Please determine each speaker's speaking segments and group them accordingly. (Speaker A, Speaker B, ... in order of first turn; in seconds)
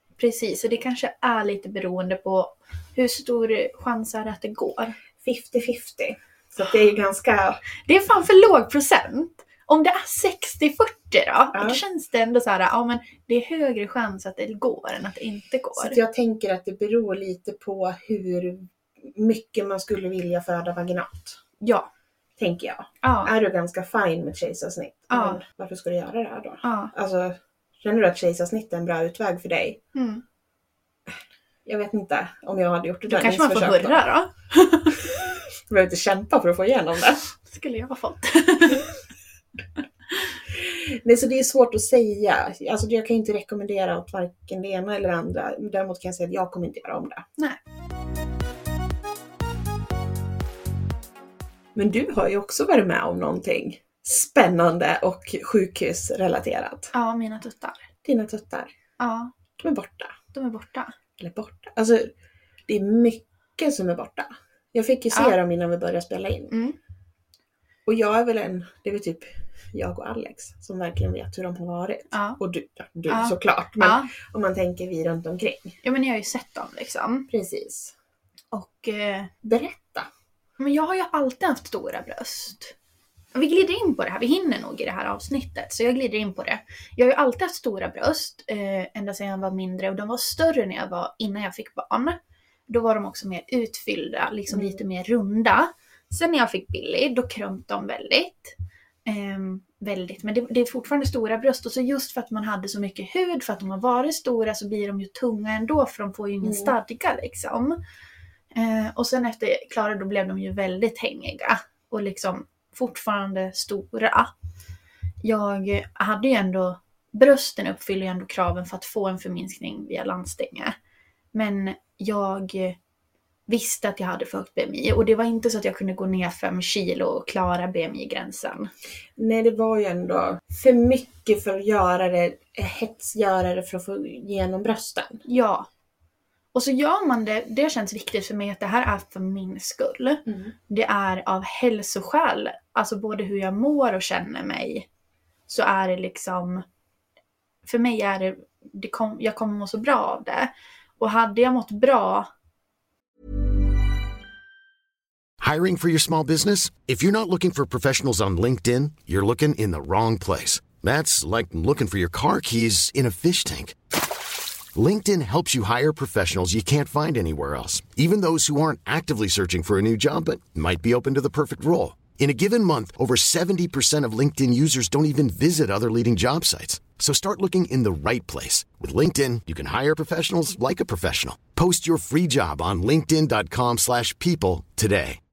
Speaker A: 0.2-5.0, 7.8-16.0, 21.6-21.9, 23.0-23.3, 25.1-25.4, 26.6-26.9, 29.9-30.2, 33.1-35.0, 37.5-38.9, 56.9-57.9, 59.0-59.3, 60.3-60.9, 65.1-65.4, 66.5-66.8, 72.1-72.4, 73.1-74.1, 75.8-77.3, 78.5-79.3, 80.6-82.7, 83.3-98.5, 99.0-107.8, 108.5-114.3, 115.2-120.7, 121.3-122.8, 123.5-128.7, 135.2-135.7, 136.5-144.9, 145.5-146.6, 147.6-152.3
Speaker B: 5.2-7.6, 11.5-11.8, 15.7-21.4, 22.4-29.8, 31.6-34.1, 35.1-37.3, 40.5-47.2, 51.7-56.9, 58.0-58.7, 59.6-60.1, 61.2-62.1, 62.7-66.5, 67.8-75.8, 77.3-77.9, 79.4-80.1, 94.5-94.8, 106.4-106.7, 129.2-135.2, 140.2-140.5
Speaker C: 155.4-163.8, 164.7-185.2